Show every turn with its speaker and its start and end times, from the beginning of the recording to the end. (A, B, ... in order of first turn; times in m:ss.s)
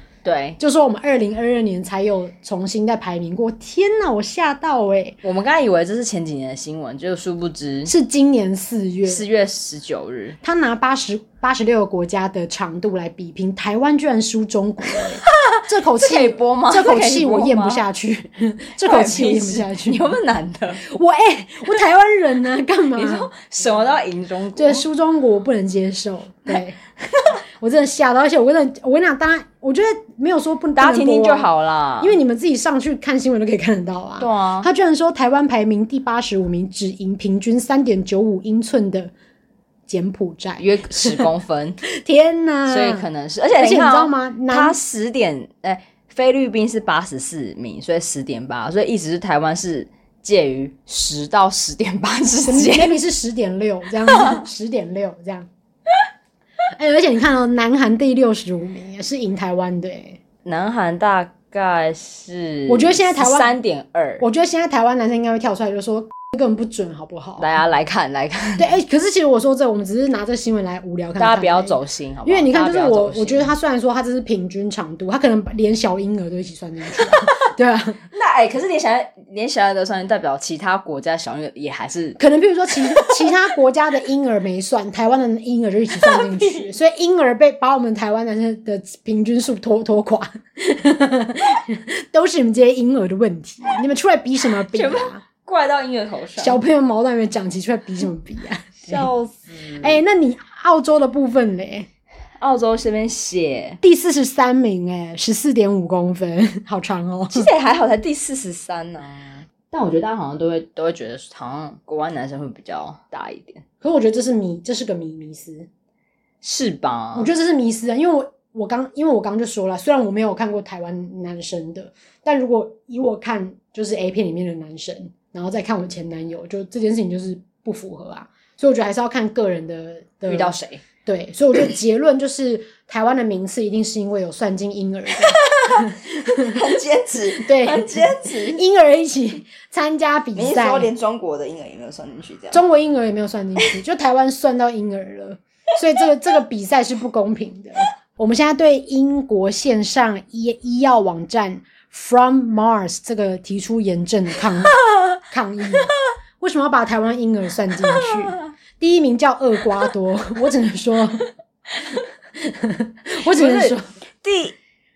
0:00.2-0:00.6 A
0:00.6-0:05.2 B
0:05.2-0:07.9 A
0:07.8-0:09.2 B
0:09.0-0:10.4 A
0:10.4-0:20.1 B
0:15.2-0:17.8 A
0:18.8-0:20.8 A
0:20.8-0:23.3 B
0:22.9-0:24.8 A
0:24.5-0:26.8 B
0:27.6-0:31.5 B
0:30.8-0:32.2 A
0:32.0-0:39.1 B
0:34.2-0:34.7 A
0:39.9-0:41.3 B
0:40.6-0:41.8 A
0:41.9-0:44.8 B
0:42.7-0:53.0 A
0:52.4-0:55.5 B
0:54.1-0:54.4 A
0:56.8-1:00.2 B
1:00.4-1:04.2 A
1:02.7-1:03.5 B
1:04.2-1:07.5 B
1:07.4-1:08.8 A
1:08.6-1:18.0 B
1:11.2-1:13.5 A
1:17.0-1:17.3 A
1:18.1-1:22.2 A
1:22.2-1:35.2 B
1:22.8-1:23.3 A
1:26.0-1:26.7 A
1:34.7-1:36.6 A
1:36.4-1:39.1 B
1:38.8-1:40.0 A
1:39.8-1:41.9 B
1:42.4-1:43.8 A
1:43.8-1:47.5 B
1:47.3-1:53.6 A
1:53.8-1:55.7 B
1:56.4-1:57.3 A
1:57.1-2:16.6 B
2:10.3-2:10.8 A
2:15.3-2:18.6 A
2:17.4-2:20.9 B
2:20.3-2:22.6 A
2:22.5-2:41.3 B
2:34.6-2:35.2 A
2:37.8-2:38.5 A
2:42.4-2:43.9 B
2:43.2-2:44.5 A